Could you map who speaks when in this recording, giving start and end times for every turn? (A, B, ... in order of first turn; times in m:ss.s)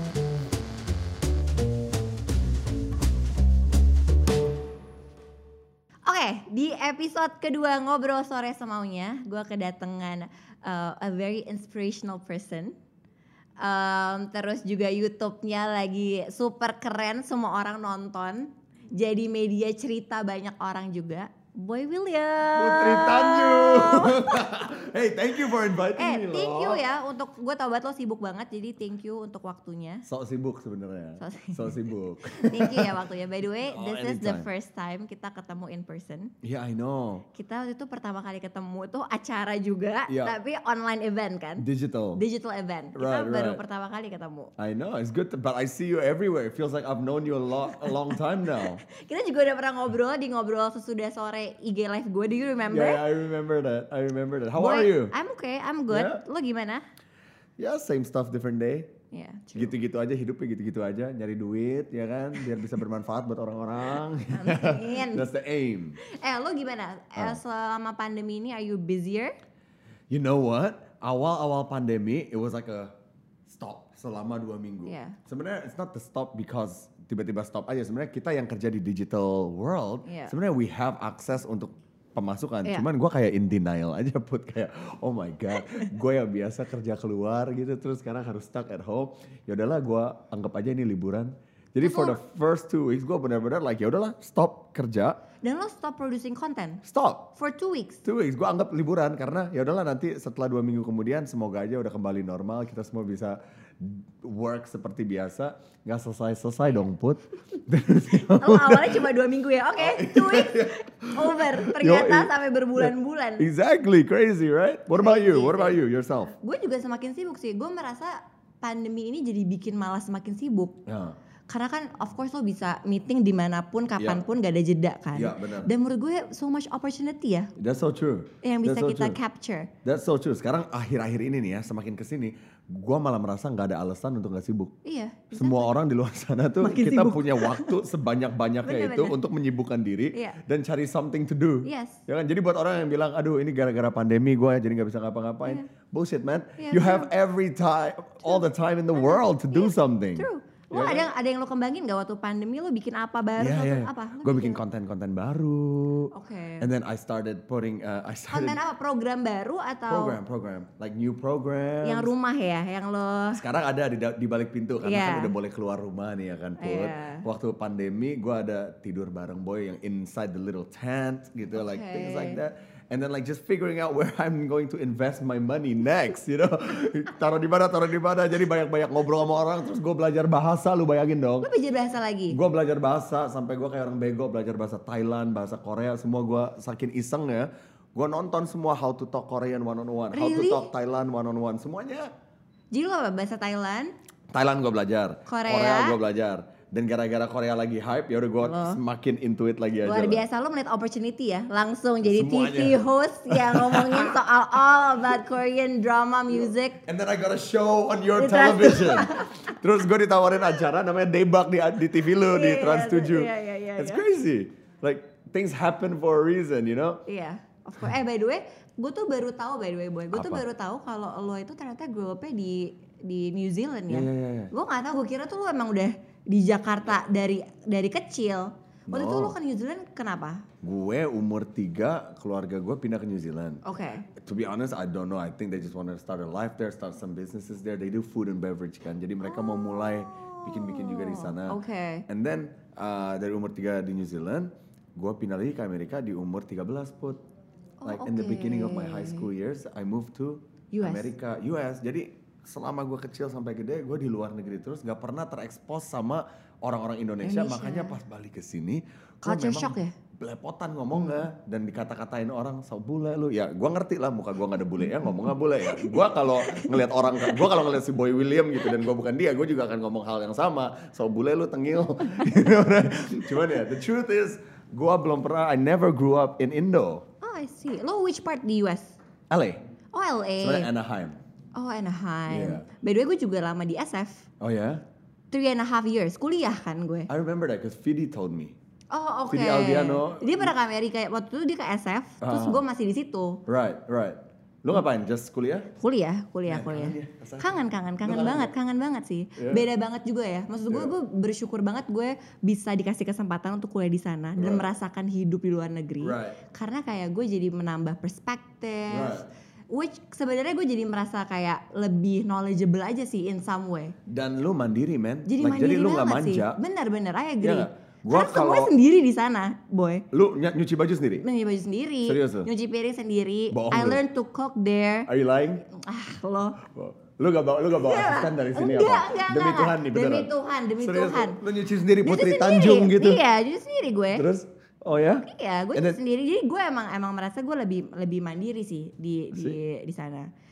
0:06.1-0:12.8 A
0:13.6-0:24.5 A
0:22.5-0:26.8 B
0:25.9-0:30.0 A
0:30.1-0:33.0 B
0:31.2-0:36.3 A
0:33.7-0:34.5 B
0:36.4-0:37.2 B
0:37.3-0:44.5 A
0:40.1-0:40.4 B
0:41.6-0:42.2 B
0:43.0-0:43.6 B
0:44.6-0:48.8 B
0:47.8-0:53.0 A
0:52.7-0:55.1 B
0:54.6-0:56.8 A
0:55.9-0:56.2 B
0:57.6-0:58.9 B
0:59.1-0:59.7 A
0:59.6-1:06.0 B
1:04.3-1:05.3 A
1:06.0-1:09.4 A
1:10.1-1:12.9 B
1:13.5-1:35.2 B
1:14.9-1:15.2 A
1:20.0-1:20.3 A
1:31.8-1:32.2 A
1:35.4-1:36.8 A
1:36.8-1:37.3 B
1:37.4-1:38.0 A
1:38.0-1:49.1 B
1:48.1-1:53.5 A
1:49.8-1:56.3 B
1:55.0-1:55.8 A
1:56.4-2:00.8 A
2:00.9-2:01.2 B
2:01.5-2:07.5 A
2:04.0-2:04.2 B
2:05.1-2:05.7 B
2:07.6-2:09.2 B
2:08.4-2:09.7 A
2:09.8-2:14.7 B
2:14.8-2:15.7 A
2:15.3-2:31.1 B
2:16.6-2:17.8 A
2:18.6-2:19.2 A
2:21.6-2:22.0 A
2:26.6-2:27.1 A
2:28.2-2:34.6 A
2:33.4-2:38.6 B
2:36.1-2:36.7 A
2:38.3-2:40.2 A
2:39.9-2:42.1 B
2:41.8-2:43.4 A
2:43.3-3:01.5 B
2:44.8-2:45.3 A
2:46.6-2:47.3 A
2:51.6-2:52.4 A
3:01.4-3:02.4 A
3:02.3-3:12.1 B
3:10.1-3:10.7 A
3:12.7-3:13.9 A
3:14.3-3:20.2 B
3:15.3-3:16.0 A
3:18.4-3:18.8 A
3:19.8-3:26.8 A
3:22.0-3:24.2 B
3:26.8-3:37.0 B
3:28.2-3:29.5 A
3:32.2-3:34.0 A
3:37.1-3:50.5 A
3:40.1-3:40.4 B
3:43.9-3:44.5 B
3:48.9-3:49.4 B
3:50.6-3:53.6 B
3:53.6-3:54.1 A
3:54.2-4:07.2 B
3:59.2-4:02.1 A
4:07.8-4:09.3 A
4:07.8-4:37.0 B
4:10.7-4:11.1 A
4:17.2-4:18.0 A
4:19.3-4:19.9 A
4:25.6-4:27.4 A
4:37.2-4:39.0 A
4:39.3-4:39.6 B
4:39.9-4:40.7 A
4:40.4-4:41.2 B
4:41.6-4:44.3 A
4:42.3-4:42.6 B
4:44.4-4:44.8 B
4:45.3-4:47.1 A
4:47.1-4:48.6 B
4:48.9-4:53.4 A
4:49.3-4:50.6 B
4:52.2-4:52.6 B
4:53.5-4:55.7 B
4:55.8-5:14.0 A
4:56.5-4:58.5 B
4:59.4-4:59.7 B
5:04.4-5:04.7 B
5:06.0-5:06.4 B
5:08.9-5:09.3 B
5:14.1-5:16.6 B
5:15.3-5:20.1 A
5:17.4-5:18.7 B
5:20.1-5:21.2 B
5:21.2-5:25.1 A
5:22.0-5:22.5 B
5:23.5-5:24.0 B
5:25.1-5:25.6 B
5:25.7-5:26.6 A
5:26.6-5:33.2 B
5:27.8-5:31.4 A
5:32.0-5:34.3 A
5:34.1-5:36.0 B
5:35.2-5:40.3 A
5:39.3-5:39.6 B